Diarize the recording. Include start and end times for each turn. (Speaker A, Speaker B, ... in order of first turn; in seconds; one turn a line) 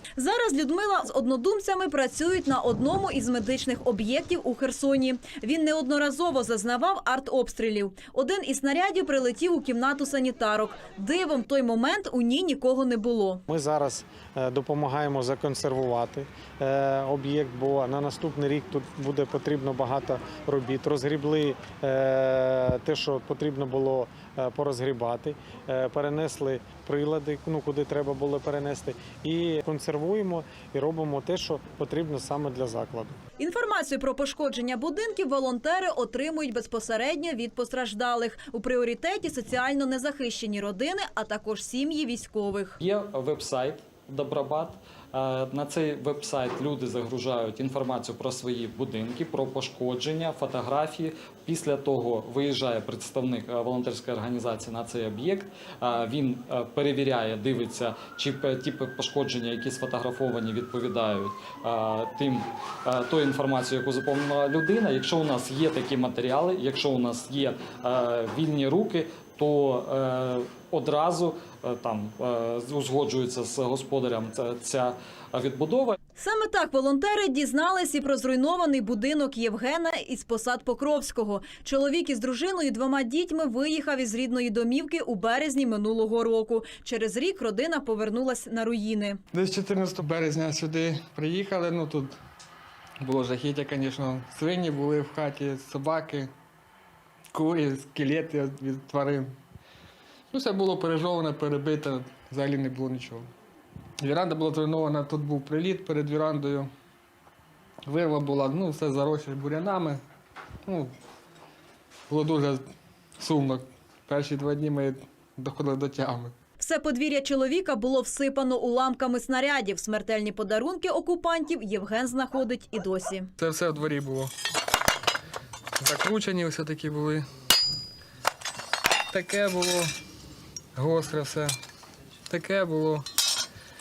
Speaker A: 0.2-13.4
Speaker B: 13.5-33.2
Speaker A: 33.4-42.8
Speaker C: 42.8-76.0
Speaker A: 76.2-89.2
Speaker D: 89.3-92.2
Speaker D: 93.0-96.3
Speaker D: 97.3-99.4
Speaker D: 100.3-103.3
Speaker D: 104.0-106.7
Speaker D: 107.8-110.0
Speaker D: 110.6-110.9
Speaker D: 112.1-112.6
Speaker D: 113.2-116.3
Speaker A: 116.6-123.3
Speaker D: 123.4-124.3
Speaker D: 125.8-127.2
Speaker D: 129.1-129.9
Speaker D: 130.8-131.6
Speaker D: 132.3-133.0